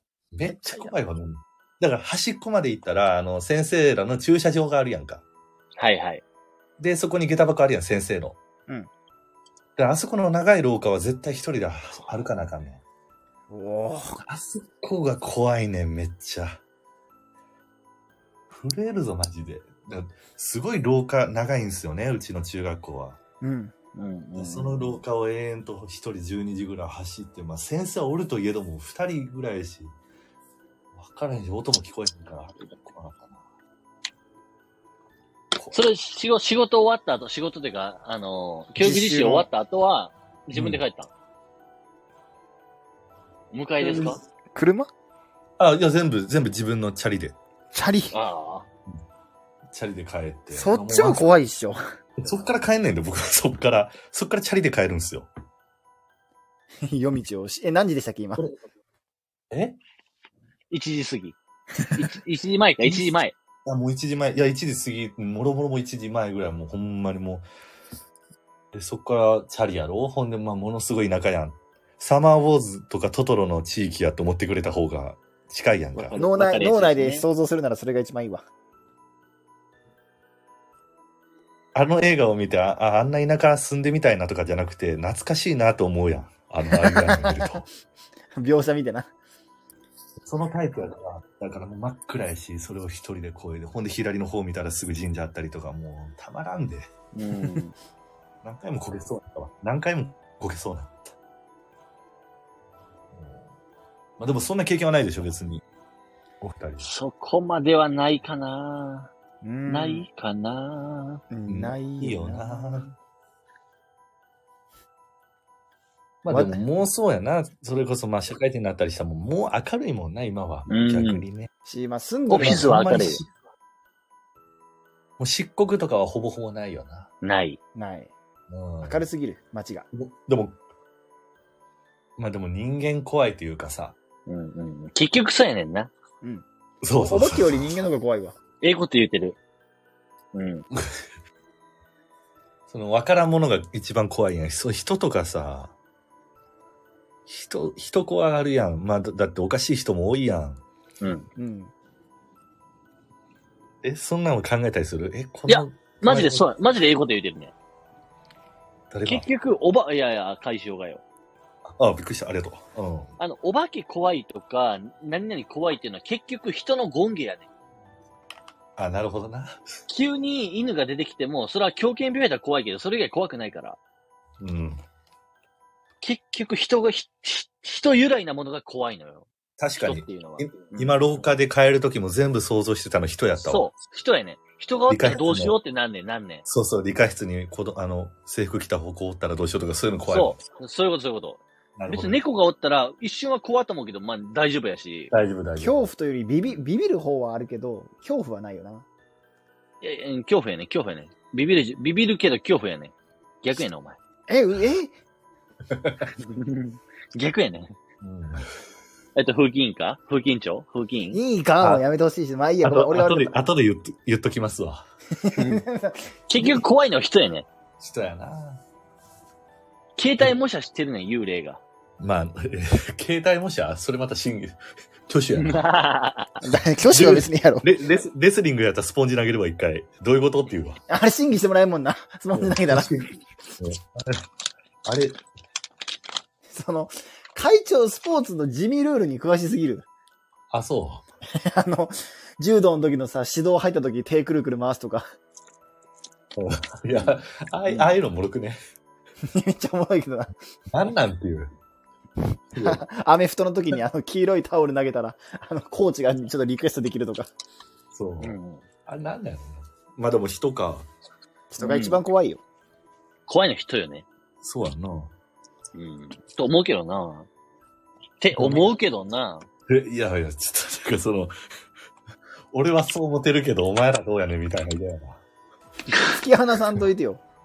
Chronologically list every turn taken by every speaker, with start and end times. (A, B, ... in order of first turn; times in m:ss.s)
0:00.3-0:05.2 A
0:05.8-0:06.2 B
0:06.8-0:08.4 A
0:09.8-0:12.8 A
0:13.5-0:14.2 C
0:14.3-0:16.6 A
0:18.5-0:23.2 A
0:23.4-0:23.7 C
0:24.0-0:25.0 B
0:24.4-0:30.0 A
0:31.0-0:33.4 A
0:35.6-0:35.8 A
0:35.7-0:41.1 B
0:38.8-0:39.5 C
0:40.5-0:40.8 A
0:43.5-0:44.2 B
0:43.8-0:44.9 C
0:45.6-0:47.4 A
0:47.7-0:48.2 C
0:48.1-0:48.7 B
0:49.7-0:51.3 A
0:50.5-0:51.8 C
0:52.2-0:55.3 A
0:56.8-0:58.4 C
0:59.5-0:59.8 A
1:00.7-1:01.4 B
1:02.0-1:03.3 B
1:02.8-1:07.4 A
1:08.7-1:16.2 A
1:16.0-1:17.3 B
1:16.2-1:18.5 C
1:21.8-1:27.7 A
1:26.7-1:27.6 C
1:28.4-1:29.1 C
1:30.2-1:36.9 A
1:37.1-1:37.7 B
1:38.4-1:41.1 A
1:43.1-1:43.5 A
1:44.2-1:45.6 A
1:46.4-1:46.9 A
1:46.8-1:49.1 B
1:49.4-1:50.1 C
1:49.7-1:51.2 B
1:51.3-1:52.9 C
1:51.5-1:52.9 A
1:56.2-2:01.5 A
1:56.3-1:56.7 C
2:00.7-2:01.2 B
2:01.6-2:02.8 C
2:02.3-2:03.2 B
2:02.4-2:03.3 A
2:05.2-2:07.1 A
2:07.2-2:07.6 B
2:07.8-2:08.1 C
2:08.5-2:09.1 A
2:08.8-2:09.9 C
2:09.9-2:10.6 A
2:12.2-2:14.0 A
2:14.3-2:15.9 B
2:16.8-2:17.8 A
2:17.0-2:18.4 C
2:18.6-2:19.4 B
2:20.3-2:20.6 B
2:20.7-2:21.0 A
2:22.7-2:25.8 A
2:27.3-2:30.6 A
2:31.0-2:31.3 B
2:31.4-2:31.7 C
2:33.8-2:36.5 A
2:35.5-2:37.5 B
2:38.9-2:39.3 A
2:39.0-2:41.0 B
2:41.7-2:43.1 A
2:43.2-2:47.5 B
2:48.8-2:49.6 A
2:49.9-2:53.8 B
2:54.4-2:54.8 A
2:56.0-3:01.3 B
2:59.6-3:03.7 A
3:03.4-3:06.4 B
3:04.9-3:05.6 A
3:06.5-3:10.4 A
3:10.1-3:15.1 B
3:11.8-3:12.2 A
3:15.1-3:15.9 A
3:15.6-3:18.9 C
3:19.8-3:24.0 B
3:24.3-3:24.9 C
3:25.7-3:26.1 A
3:26.2-3:27.7 B
3:28.0-3:28.5 A
3:29.2-3:31.2 B
3:31.1-3:33.3 C
3:32.6-3:34.9 A
3:35.2-3:36.1 C
3:35.4-3:35.6 B
3:36.3-3:37.5 B
3:37.8-3:38.6 A
3:40.0-3:41.6 B
3:42.0-3:45.6 A
3:45.3-3:46.3 B
3:46.4-3:47.7 C
3:46.9-3:50.8 A
3:50.9-3:52.9 C
3:52.3-3:54.2 A
3:54.9-3:55.2 A
3:56.5-3:59.9 C
4:00.5-4:01.0 A
4:01.4-4:05.1 C
4:06.4-4:08.6 A
4:07.7-4:07.9 C
4:09.3-4:10.4 C
4:10.7-4:11.5 A
4:12.6-4:12.8 A
4:12.6-4:17.3 C
4:17.9-4:20.9 A
4:18.2-4:18.6 B
4:21.5-4:22.4 C
4:21.6-4:22.0 B
4:23.3-4:24.1 B
4:24.4-4:25.1 A
4:25.8-4:27.3 B
4:28.2-4:29.5 B
4:28.4-4:28.7 A
4:29.7-4:31.3 A
4:32.5-4:35.2 A
4:35.9-4:37.2 C